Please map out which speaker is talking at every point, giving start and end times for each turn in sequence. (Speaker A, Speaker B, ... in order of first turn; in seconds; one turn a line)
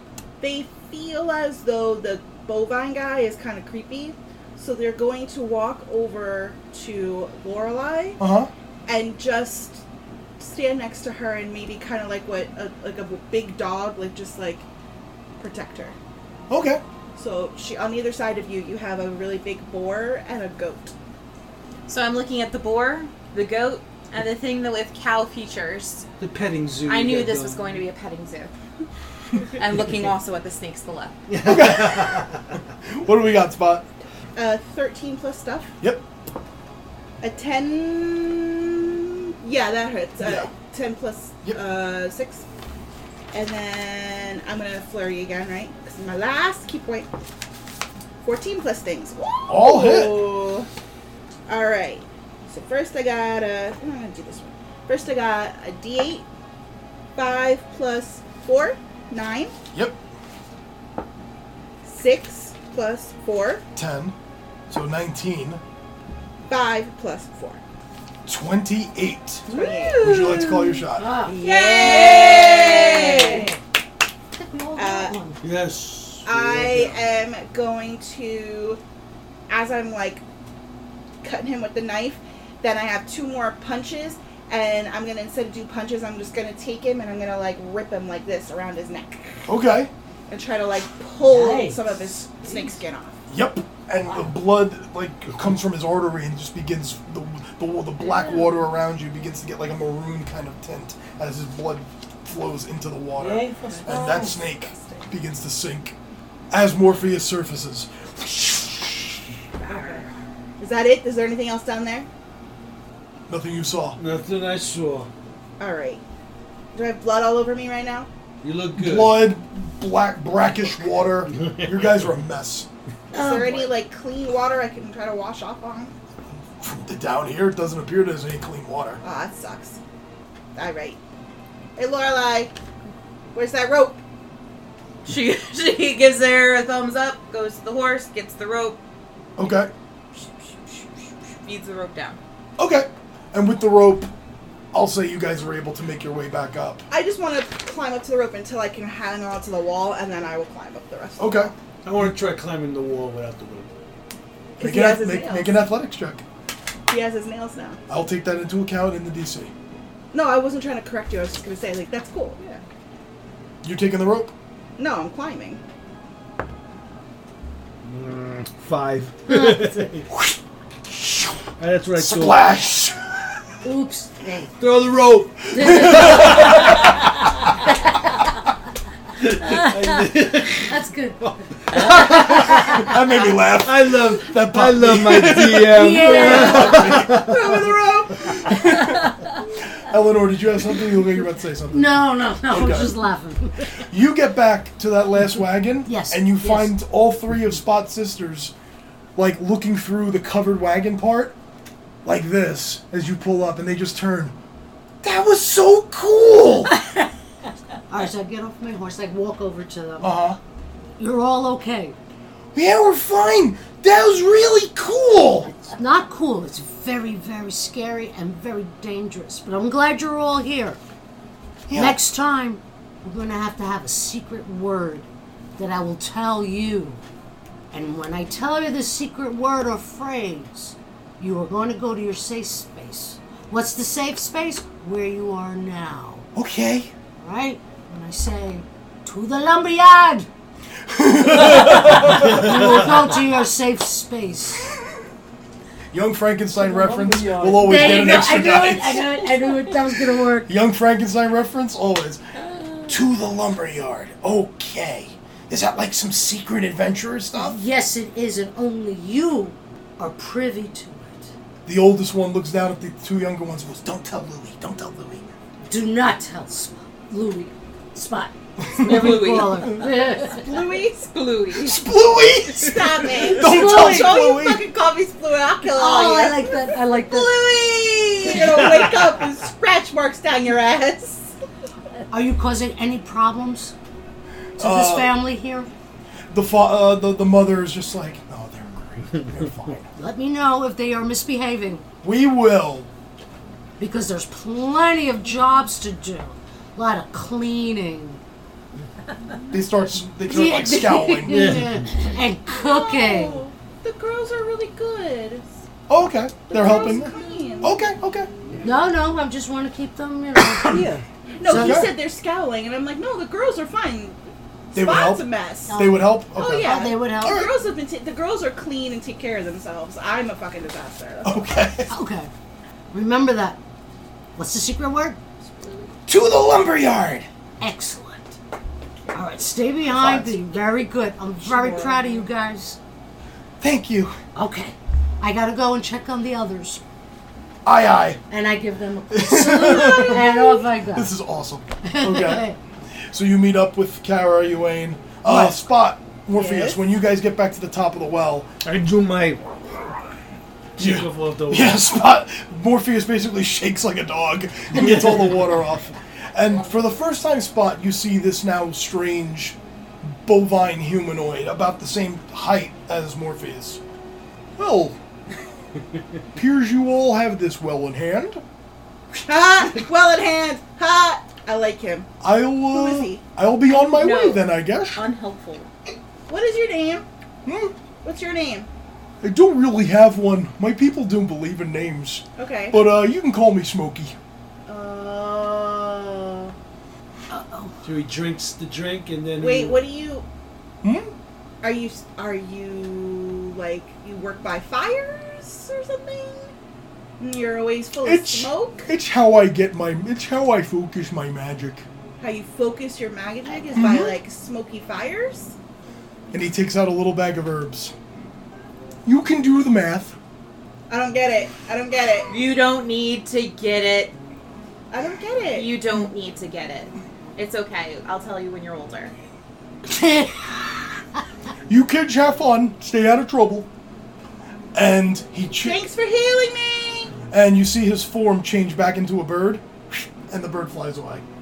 Speaker A: 0.4-8.2
Speaker B: 8.2-8.5
Speaker A: 8.9-9.8
Speaker A: 10.4-14.7
Speaker A: 15.4-15.9
Speaker B: 16.5-16.8
Speaker A: 17.1-20.9
Speaker C: 21.9-26.1
Speaker D: 26.2-27.8
Speaker C: 26.8-28.5
Speaker C: 29.6-31.2
Speaker D: 31.3-32.5
Speaker B: 31.4-33.9
Speaker A: 34.3-35.7
Speaker A: 37.2-42.5
Speaker B: 40.2-40.5
Speaker A: 43.3-47.1
Speaker A: 48.2-50.7
Speaker B: 49.5-50.4
Speaker A: 51.5-56.3
Speaker A: 57.1-59.5
Speaker A: 61.8-63.6
Speaker B: 63.7-64.1
Speaker B: 64.7-65.6
Speaker A: 66.5-67.6
Speaker B: 68.2-69.5
Speaker A: 69.5-70.1
Speaker E: 69.5-69.8
Speaker C: 69.5-70.3
Speaker B: 70.0-71.2
Speaker F: 70.9-71.4
Speaker E: 71.2-73.5
Speaker A: 71.4-73.5
Speaker C: 71.4-73.5
Speaker F: 74.4-75.4
Speaker A: 74.8-75.2
Speaker D: 75.4-77.1
Speaker A: 76.2-78.8
Speaker A: 79.5-80.2
Speaker A: 81.2-89.5
Speaker B: 89.5-89.9
Speaker A: 90.3-93.2
Speaker E: 91.2-92.7
Speaker B: 93.3-106.0
Speaker E: 94.1-94.3
Speaker E: 103.2-104.4
Speaker A: 104.0-104.2
Speaker B: 106.5-109.2
Speaker E: 109.7-110.0
Speaker A: 110.6-112.1
Speaker B: 113.3-114.0
Speaker D: 114.0-115.1
Speaker A: 115.6-116.0
Speaker A: 116.7-118.1
Speaker D: 118.4-119.3
Speaker B: 118.7-122.7
Speaker D: 121.3-121.9
Speaker A: 123.1-125.9
Speaker E: 123.2-123.5
Speaker F: 123.2-123.6
Speaker B: 126.5-129.0
Speaker A: 129.0-129.8
Speaker A: 130.5-131.0
Speaker A: 131.8-132.6
Speaker A: 133.3-134.0
Speaker C: 135.0-138.8
Speaker B: 139.4-139.7
Speaker C: 141.4-142.2
Speaker B: 142.6-144.1
Speaker B: 144.7-146.8
Speaker A: 146.9-151.5
Speaker B: 151.2-151.5
Speaker D: 151.8-153.7
Speaker A: 154.6-155.7
Speaker B: 154.6-156.2
Speaker A: 156.9-157.8
Speaker B: 157.9-159.5
Speaker A: 160.1-162.6
Speaker B: 163.6-164.3
Speaker A: 164.8-165.6
Speaker D: 167.9-170.1
Speaker F: 169.3-169.8
Speaker B: 170.1-173.2
Speaker D: 171.6-172.4
Speaker F: 173.6-174.5
Speaker D: 174.6-176.9
Speaker F: 175.5-176.6
Speaker B: 175.6-176.7
Speaker D: 179.2-183.0
Speaker F: 180.6-182.7
Speaker B: 181.8-187.3
Speaker D: 183.6-187.4
Speaker F: 185.7-186.9
Speaker A: 186.1-188.7
Speaker B: 188.3-189.1
Speaker B: 189.7-193.0
Speaker F: 191.7-193.8
Speaker B: 193.9-198.5
Speaker F: 195.8-196.8
Speaker B: 199.2-201.3
Speaker B: 202.0-204.3
Speaker B: 205.0-206.7
Speaker F: 207.9-210.1
Speaker B: 210.0-210.4
Speaker F: 211.0-211.9
Speaker B: 212.5-215.5
Speaker F: 215.7-220.8
Speaker B: 221.7-222.0
Speaker F: 221.7-227.0
Speaker F: 227.7-236.2
Speaker B: 236.3-236.9
Speaker F: 237.2-240.3
Speaker B: 240.8-242.6
Speaker F: 241.5-244.7
Speaker B: 245.9-249.1
Speaker E: 246.6-248.3
Speaker F: 247.6-250.6
Speaker B: 250.4-252.2
Speaker B: 252.8-257.6
Speaker F: 257.3-261.3
Speaker B: 261.6-265.3
Speaker F: 265.7-270.5
Speaker B: 268.6-269.6
Speaker C: 268.7-269.7
Speaker A: 270.1-271.1
Speaker C: 271.0-271.9
Speaker B: 271.6-274.6
Speaker A: 272.6-281.3
Speaker F: 273.2-274.2
Speaker F: 275.7-277.4
Speaker D: 278.2-279.3
Speaker F: 282.1-283.7
Speaker B: 284.6-285.2
Speaker F: 284.6-285.7
Speaker B: 286.3-289.9
Speaker F: 289.9-291.8
Speaker B: 292.0-292.9
Speaker F: 293.8-298.2
Speaker B: 299.5-301.6
Speaker F: 300.2-303.4
Speaker D: 301.3-301.9
Speaker A: 302.5-305.5
Speaker B: 305.9-307.1
Speaker A: 306.5-307.8
Speaker B: 307.6-308.3
Speaker F: 308.6-310.9
Speaker E: 310.6-311.0
Speaker A: 311.4-315.8
Speaker F: 311.4-311.9
Speaker B: 311.5-311.9
Speaker B: 314.7-317.5
Speaker F: 315.7-317.5
Speaker A: 316.4-321.5
Speaker B: 321.2-321.9
Speaker F: 321.9-322.3
Speaker F: 322.9-323.6
Speaker F: 324.4-325.2
Speaker C: 325.4-325.9
Speaker B: 326.1-327.3
Speaker F: 327.6-328.3
Speaker F: 329.1-332.8
Speaker B: 329.9-330.4
Speaker A: 331.6-331.9
Speaker B: 333.6-334.1
Speaker F: 334.3-336.8
Speaker B: 337.6-338.2
Speaker F: 338.3-341.1
Speaker B: 339.1-342.5
Speaker F: 341.8-342.6
Speaker B: 343.1-348.5
Speaker F: 346.3-346.8
Speaker D: 348.6-349.9
Speaker D: 350.8-351.9
Speaker B: 350.8-363.8
Speaker D: 354.7-355.4
Speaker B: 364.6-365.0
Speaker B: 366.3-368.4
Speaker A: 369.2-372.1
Speaker B: 372.2-375.0
Speaker A: 372.7-373.2
Speaker C: 373.7-375.7
Speaker A: 376.3-377.0
Speaker B: 377.4-377.7
Speaker A: 378.0-378.7
Speaker B: 379.2-384.1
Speaker A: 382.4-382.8
Speaker A: 384.7-386.5
Speaker F: 387.3-387.8
Speaker D: 387.8-389.8
Speaker A: 389.4-390.2
Speaker B: 390.8-391.1
Speaker A: 391.6-396.5
Speaker A: 397.2-398.9
Speaker B: 398.0-401.9
Speaker A: 402.2-405.5
Speaker B: 403.7-404.2
Speaker B: 406.3-407.9
Speaker B: 409.0-410.1
Speaker A: 410.9-412.3
Speaker C: 412.3-414.2
Speaker A: 414.9-415.7
Speaker C: 415.5-419.1
Speaker F: 419.9-420.9
Speaker B: 421.7-423.7
Speaker B: 424.7-425.9
Speaker A: 425.6-427.1
Speaker B: 427.3-431.2